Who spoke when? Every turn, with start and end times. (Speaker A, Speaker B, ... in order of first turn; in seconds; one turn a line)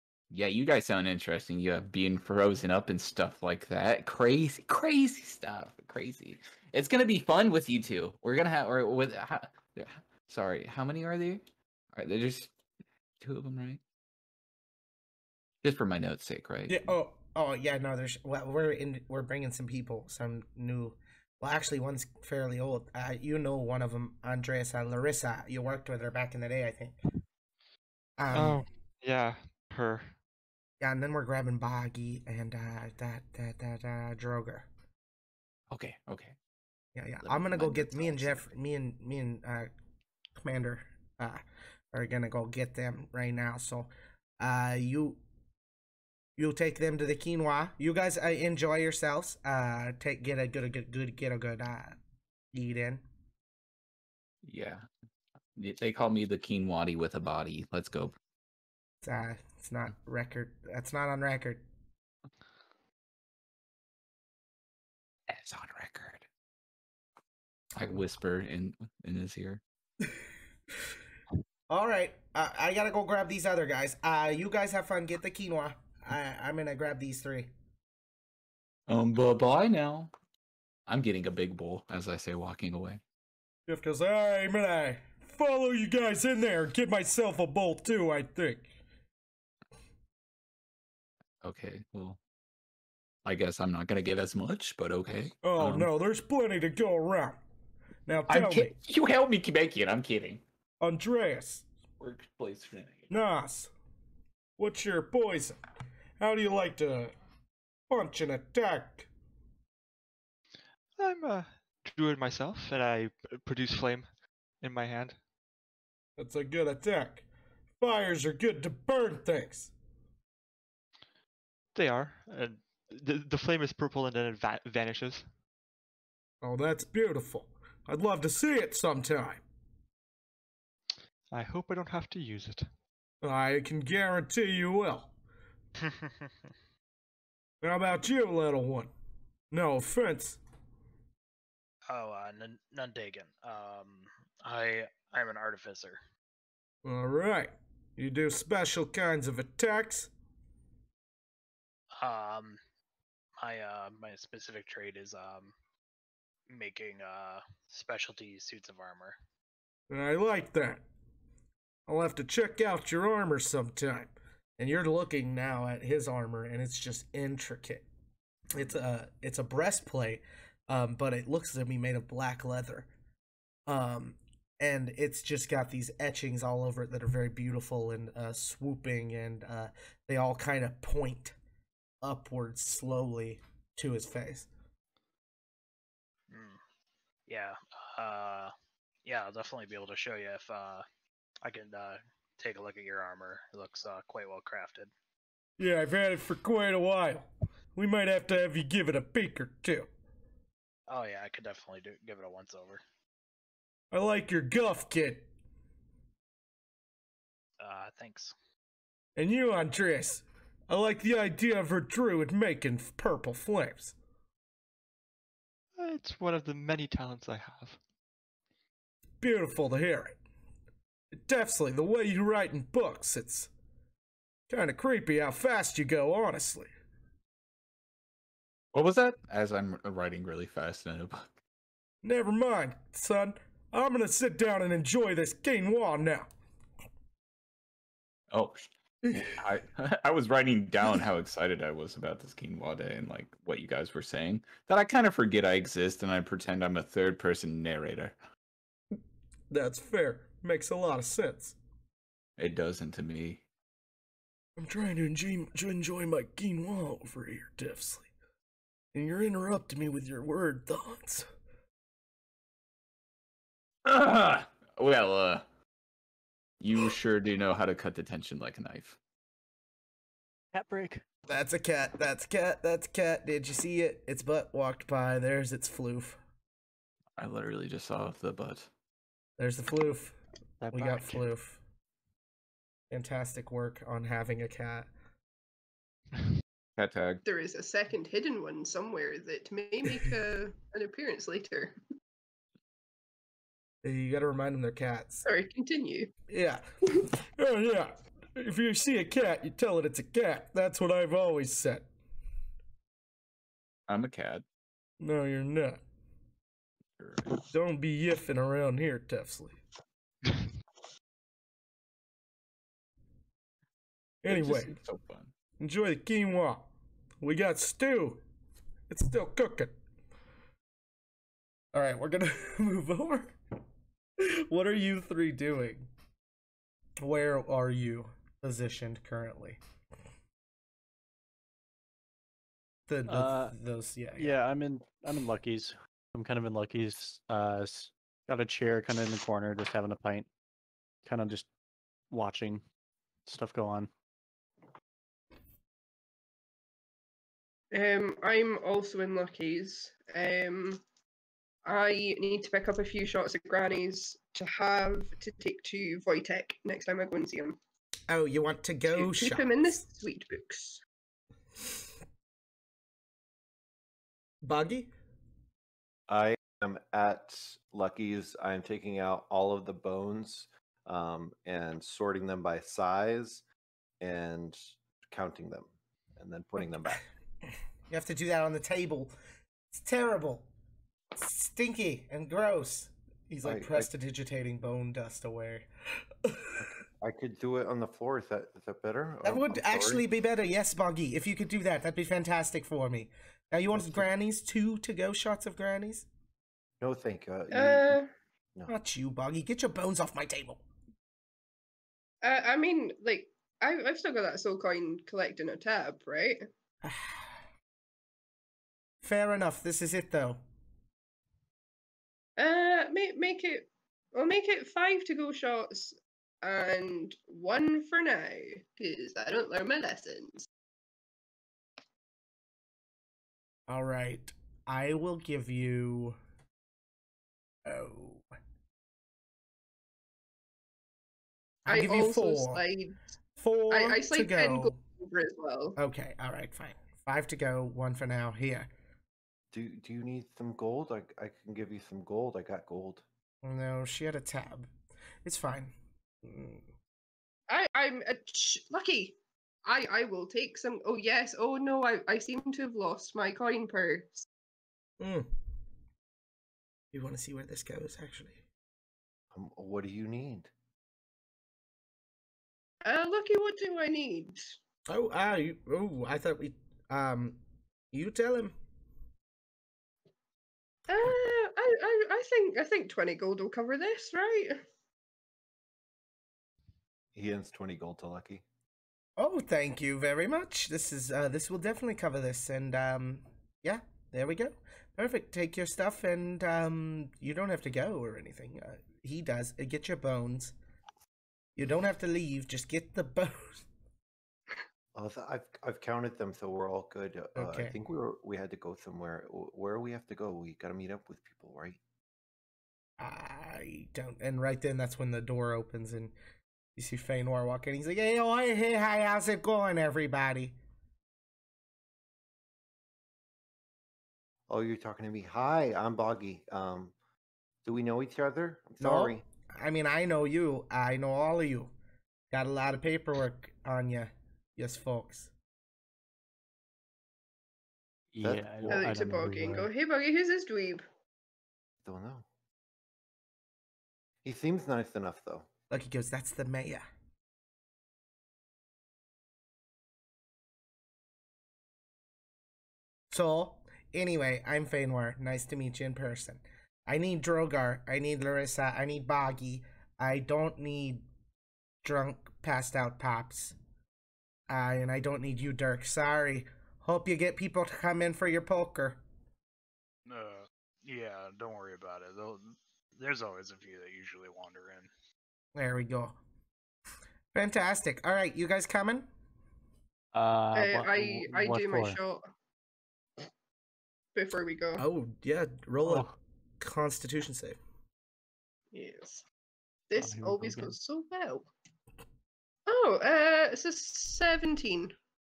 Speaker A: 0.3-11.4
Speaker A: 11.9-12.6
Speaker A: 13.2-13.8
Speaker A: 15.6-16.9
Speaker B: 16.7-27.0
Speaker B: 28.2-28.6
Speaker C: 28.3-30.1
Speaker B: 30.8-34.7
Speaker A: 35.7-36.4
Speaker B: 37.0-39.7
Speaker A: 37.2-38.3
Speaker B: 40.4-45.2
Speaker B: 46.4-52.0
Speaker B: 52.5-53.0
Speaker A: 54.4-54.9
Speaker A: 55.6-58.2
Speaker B: 59.0-61.6
Speaker A: 65.3-66.3
Speaker A: 67.8-69.6
Speaker B: 71.7-77.5
Speaker A: 78.9-80.1
Speaker A: 80.9-83.0
Speaker B: 83.7-88.7
Speaker A: 91.4-92.2
Speaker A: 93.2-95.9
Speaker B: 95.4-97.4
Speaker B: 98.1-98.8
Speaker A: 98.3-100.4
Speaker B: 100.8-101.7
Speaker A: 102.0-103.1
Speaker B: 103.1-103.7
Speaker B: 104.6-105.6
Speaker B: 106.2-107.2
Speaker B: 107.9-109.1
Speaker C: 111.0-114.1
Speaker C: 114.6-115.2
Speaker B: 116.2-117.3
Speaker B: 117.8-119.7
Speaker C: 121.8-125.3
Speaker B: 126.4-129.4
Speaker C: 131.3-132.7
Speaker B: 133.2-135.1
Speaker D: 135.8-136.3
Speaker B: 137.6-138.9
Speaker B: 139.5-140.4
Speaker D: 141.9-146.0
Speaker B: 146.8-150.1
Speaker D: 152.0-152.6
Speaker D: 153.4-155.5
Speaker D: 156.5-159.2
Speaker B: 159.9-160.8
Speaker B: 161.9-167.9
Speaker B: 168.5-172.9
Speaker B: 173.7-181.4
Speaker B: 182.0-184.5
Speaker D: 186.3-186.6
Speaker D: 187.3-188.5
Speaker D: 189.1-190.8
Speaker D: 191.4-194.9
Speaker B: 195.6-199.9
Speaker D: 200.9-202.8
Speaker B: 203.9-205.3
Speaker D: 207.6-208.3
Speaker B: 209.2-213.9
Speaker C: 215.8-217.8
Speaker B: 219.2-220.2
Speaker B: 221.1-223.5
Speaker B: 224.5-226.7
Speaker A: 228.7-231.3
Speaker B: 232.0-236.3
Speaker A: 238.3-238.7
Speaker A: 239.2-248.2
Speaker B: 249.5-251.6
Speaker A: 252.4-253.4
Speaker B: 254.6-258.1
Speaker B: 258.9-261.3
Speaker A: 263.9-265.4
Speaker A: 266.6-269.0
Speaker E: 270.5-271.0
Speaker B: 271.3-276.2
Speaker A: 277.2-278.7
Speaker B: 279.4-280.2
Speaker E: 280.6-281.3
Speaker B: 280.7-281.6
Speaker B: 282.9-284.9
Speaker A: 286.8-287.2
Speaker F: 287.3-291.8
Speaker B: 293.8-295.3
Speaker F: 295.2-296.1
Speaker B: 296.3-301.9
Speaker A: 303.9-304.4
Speaker B: 305.0-305.8
Speaker A: 307.0-307.4
Speaker B: 307.5-309.6
Speaker B: 314.2-314.7
Speaker A: 314.3-315.3
Speaker B: 315.6-316.7
Speaker B: 317.2-318.2
Speaker B: 318.9-319.8
Speaker B: 321.7-323.4
Speaker B: 324.2-325.9
Speaker B: 327.0-329.6
Speaker B: 332.9-334.4
Speaker E: 333.1-333.6
Speaker E: 334.2-340.3
Speaker E: 341.1-341.5
Speaker E: 342.1-342.6
Speaker E: 343.3-343.9
Speaker F: 347.7-350.8
Speaker F: 351.6-357.6
Speaker B: 358.1-359.7
Speaker F: 358.9-360.8
Speaker B: 364.4-364.9
Speaker G: 366.1-373.4
Speaker G: 374.0-377.0
Speaker B: 377.9-379.1
Speaker B: 379.7-380.5
Speaker B: 381.2-385.7
Speaker G: 383.4-383.9
Speaker B: 386.2-386.6
Speaker G: 386.6-390.0
Speaker B: 389.2-396.1
Speaker G: 393.7-394.1
Speaker G: 396.8-398.0
Speaker F: 397.5-398.1
Speaker B: 398.7-400.6
Speaker F: 402.2-406.5
Speaker B: 406.8-407.3
Speaker B: 409.0-410.4
Speaker F: 412.4-420.5
Speaker B: 423.7-426.2
Speaker B: 427.7-428.3
Speaker B: 431.7-432.6
Speaker F: 431.7-432.9
Speaker B: 433.4-434.8
Speaker F: 433.7-435.8
Speaker B: 435.8-438.7
Speaker G: 439.5-443.1
Speaker B: 443.4-444.7
Speaker B: 445.2-446.7
Speaker F: 447.5-454.3
Speaker B: 455.0-455.3
Speaker B: 456.9-458.4
Speaker G: 459.3-460.5
Speaker F: 462.9-464.5
Speaker B: 464.9-467.4
Speaker B: 467.9-468.6
Speaker F: 470.9-474.6
Speaker G: 477.1-478.4
Speaker B: 479.2-490.6
Speaker B: 491.6-493.6
Speaker G: 494.9-501.8
Speaker B: 497.4-497.8
Speaker B: 503.0-506.1
Speaker B: 506.8-510.6
Speaker G: 514.5-516.9
Speaker G: 517.6-519.2
Speaker B: 518.8-521.7
Speaker B: 522.3-525.3
Speaker E: 528.1-529.7
Speaker G: 528.2-529.0
Speaker F: 528.7-530.9
Speaker G: 531.8-532.3
Speaker G: 534.2-535.5
Speaker B: 535.7-536.9
Speaker B: 543.1-551.1
Speaker B: 551.8-553.6
Speaker B: 554.5-559.0
Speaker D: 560.1-564.9
Speaker B: 565.5-566.2
Speaker B: 567.3-569.1
Speaker E: 570.1-572.0
Speaker F: 570.5-572.3
Speaker F: 574.1-574.8
Speaker B: 574.8-576.1
Speaker E: 575.8-576.1
Speaker B: 576.6-577.6
Speaker F: 578.7-579.2
Speaker F: 579.9-581.5
Speaker E: 580.0-580.8
Speaker F: 582.7-585.0